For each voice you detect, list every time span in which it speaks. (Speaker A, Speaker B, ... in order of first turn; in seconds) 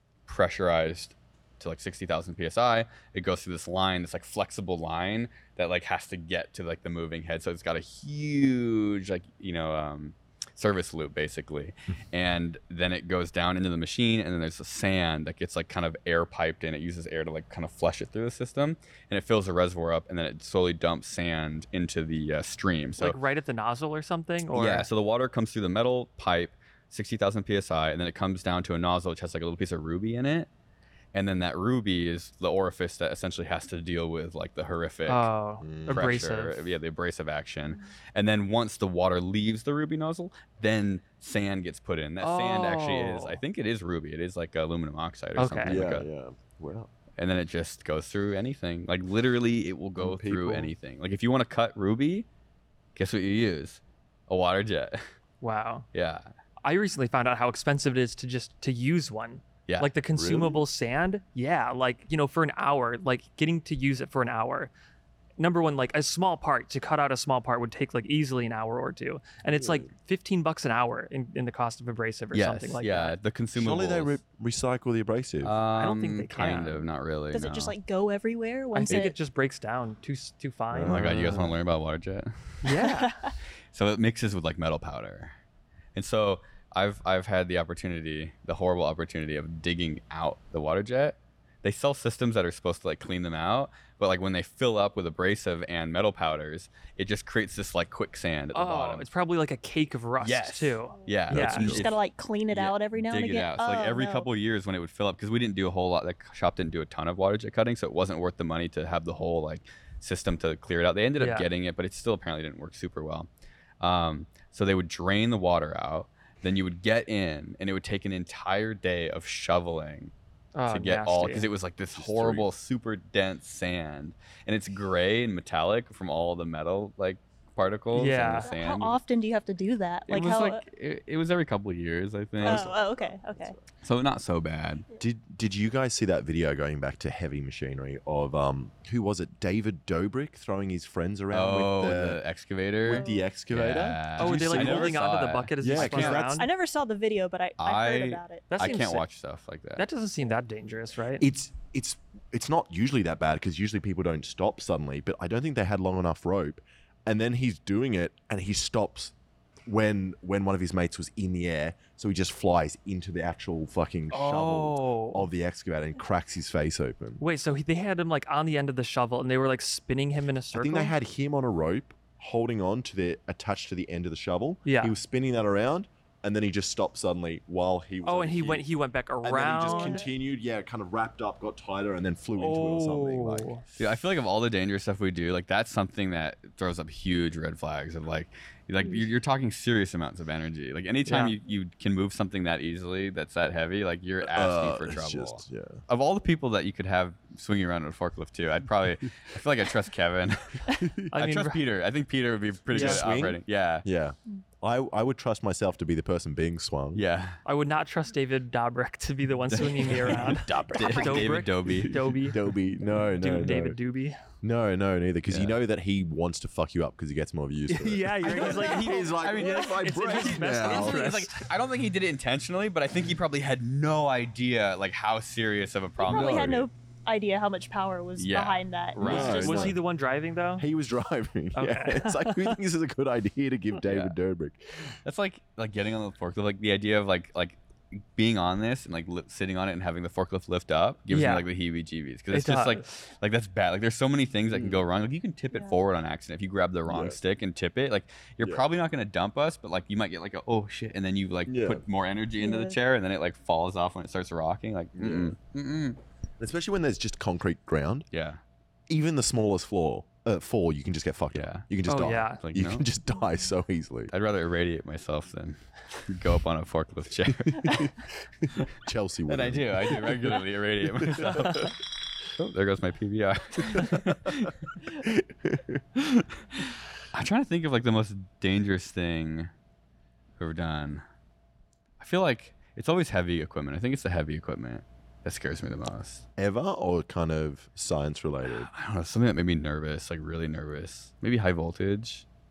Speaker A: 0.2-23.2, 24.5-30.5, 31.1-35.3, 35.9-46.1, 47.2-52.3, 53.0-55.0, 55.9-56.3, 72.3-74.2, 75.4-77.7, 80.8-82.7, 83.7-85.3, 85.9-99.1, 100.2-113.3, 113.8-120.1, 120.7-129.0, 130.1-132.7, 133.8-134.8, 141.3-146.3, 147.6-149.8, 183.8-203.8, 206.9-207.4, 209.5-212.0, 215.3-215.6, 218.2-226.6, 228.2-229.7, 233.8-234.1, 235.0-256.0, 258.1-258.4, 261.3-261.7, 262.4-262.9, 264.1-267.9, 269.3-271.7, 272.3-274.8, 275.9-279.5, 280.4-281.0, 282.0-286.2, 288.5-292.2
Speaker B: 23.0-24.9, 35.1-36.6, 42.2-43.4, 45.4-45.8, 55.4-55.9, 56.6-64.7, 65.4-73.2, 75.8-76.8, 78.7-81.4, 82.6-83.1, 98.5-101.8, 111.2-111.5, 120.5-121.5, 127.9-128.5, 144.2-146.5, 148.5-149.0, 149.8-151.2, 164.1-165.3, 167.2-170.9, 174.6-174.9, 178.0-180.0, 182.3-183.6, 191.1-191.3, 201.1-201.6, 202.7-203.0, 207.4-214.2, 217.7-221.5, 229.0-230.7, 231.5-232.6, 241.1-241.5, 242.3-242.8, 261.9-262.4
Speaker C: 35.6-36.2, 45.6-46.9, 50.0-50.7, 60.1-60.6, 69.5-69.9, 73.5-75.6, 80.7-81.5, 101.3-101.8, 121.9-122.5, 132.4-133.6, 135.0-142.2, 142.8-145.0, 145.6-146.4, 151.2-159.1, 159.7-167.2, 170.5-178.7, 179.2-183.5, 194.2-195.8, 202.7-207.0, 210.1-211.1, 211.7-213.8, 214.4-221.2, 226.0-226.7, 229.0-229.8, 230.6-234.9, 244.5-244.8, 246.8-247.2, 251.5-251.8, 255.0-255.3, 256.4-258.1, 258.9-264.1, 267.6-267.9, 268.4-270.4, 271.0-271.7, 275.0-275.8, 286.4-288.7
Speaker D: 77.3-79.2, 82.8-83.3, 101.0-104.3, 128.4-130.6, 132.4-133.5, 142.9-143.2, 146.4-148.8, 179.6-180.1, 218.3-218.9, 226.0-229.7, 252.4-252.8